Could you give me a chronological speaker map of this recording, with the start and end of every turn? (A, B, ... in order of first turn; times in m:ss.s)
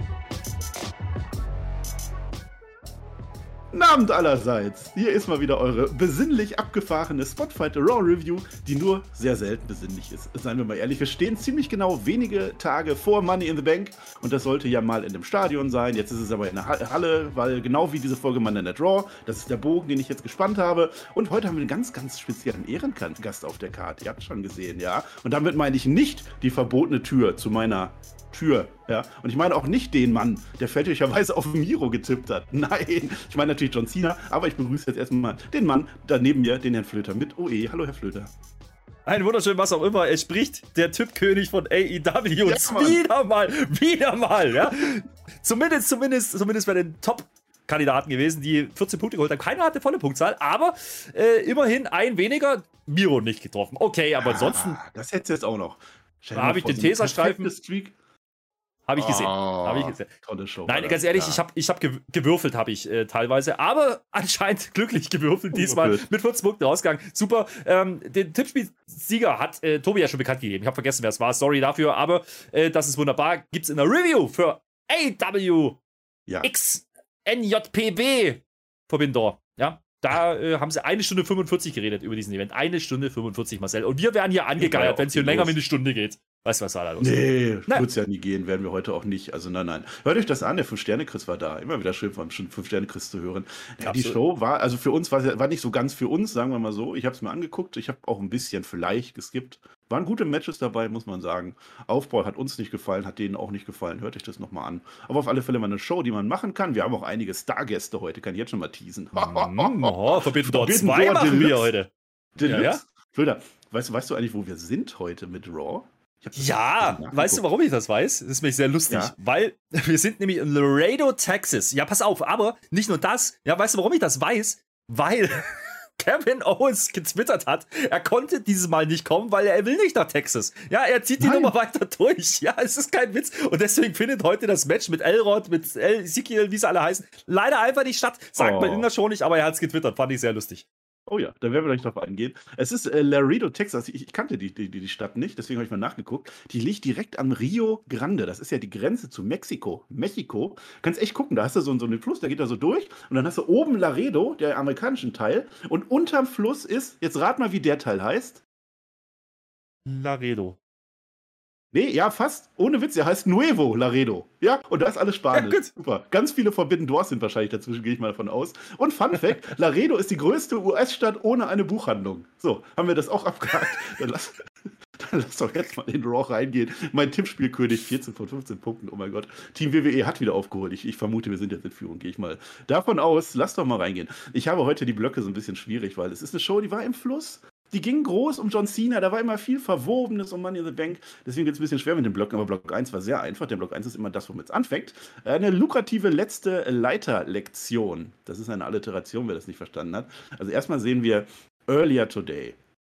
0:03.7-0:38.3 A
0:39.1-0:54.8 B
0:42.4-0:43.0 A
0:54.2-0:58.0 A
0:56.4-0:57.5 B
0:58.9-1:00.1 B
0:59.0-1:01.4 A
1:00.7-1:15.8 B
1:05.5-1:06.0 A
1:16.4-1:27.9 B
1:24.6-1:25.6 A
1:27.0-1:51.7 A
1:33.8-1:34.2 B
1:49.2-1:51.9 B
1:52.4-1:57.4 A
1:52.4-1:52.8 B
1:56.4-2:20.6 B
2:11.2-2:11.5 A
2:18.4-2:18.9 A
2:21.1-2:38.4 A
2:39.9-2:40.6 B
2:41.7-3:22.6 A
2:45.3-2:45.7 B